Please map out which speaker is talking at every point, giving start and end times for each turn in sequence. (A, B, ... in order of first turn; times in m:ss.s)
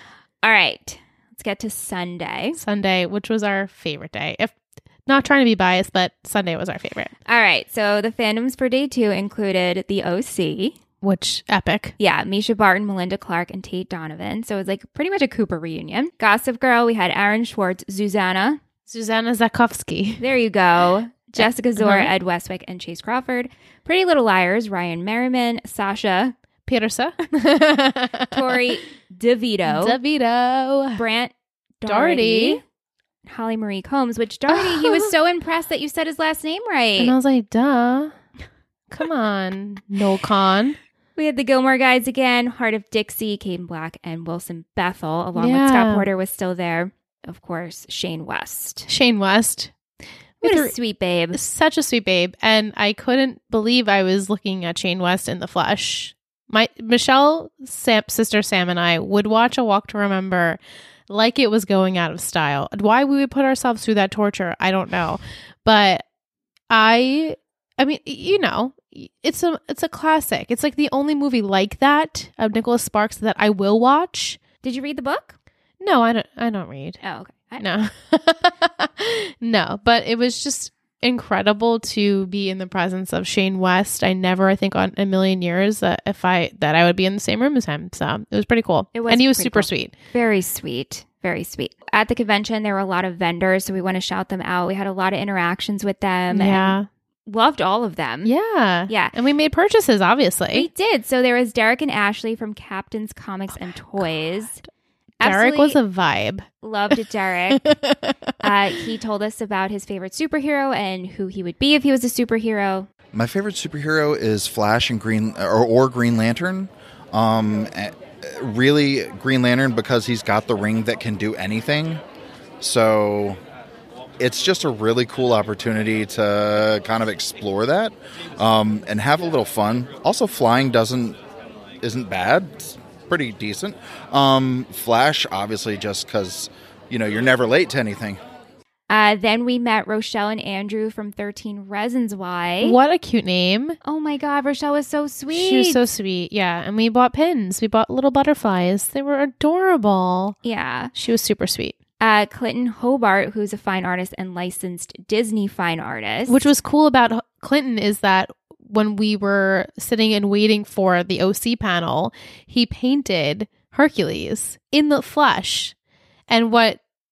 0:00.4-0:02.6 A
0:02.6-0:07.1 B
0:07.3-0:10.8 A
0:11.0-0:12.0 B
0:12.0-0:18.6 A
0:18.9-0:20.2 B
0:20.2-0:26.4 A
0:21.4-0:22.1 B
0:26.7-0:28.6 B
0:28.3-0:30.0 A
0:29.7-0:31.0 B
0:31.0-0:32.6 A
0:31.8-0:32.6 B
0:33.2-0:37.2 A
0:34.5-0:35.1 B
0:37.0-0:38.1 B
0:38.9-0:40.8 B
0:41.2-0:48.9 A
0:45.4-0:46.1 B
0:48.9-0:49.7 B
0:50.4-0:50.7 B
0:50.4-0:51.4 A
0:51.3-1:06.0 B
1:06.7-1:14.4 B
1:14.6-1:15.4 A
1:15.8-1:17.0 B
1:17.0-1:17.7 A
1:17.6-1:29.9 B
1:28.9-1:38.3 A
1:36.3-1:36.9 B
1:38.2-1:40.7 B
1:38.9-1:39.2 A
1:40.5-1:44.6 A
1:43.5-1:44.1 B
1:45.2-1:45.8 A
1:45.2-1:46.9 B
1:46.6-1:47.7 A
1:47.5-1:48.5 B
1:48.4-1:52.9 A
1:53.1-2:02.0 C
2:02.6-2:03.4 C
2:04.2-2:11.2 C
2:11.8-2:18.2 C
2:18.9-2:22.8 A
2:22.6-2:23.8 B
2:23.8-2:25.8 A
2:25.3-2:30.4 B
2:30.4-2:30.9 A
2:30.9-2:31.8 B
2:32.0-2:36.5 A
2:36.3-2:45.7 B
2:46.3-2:46.8 B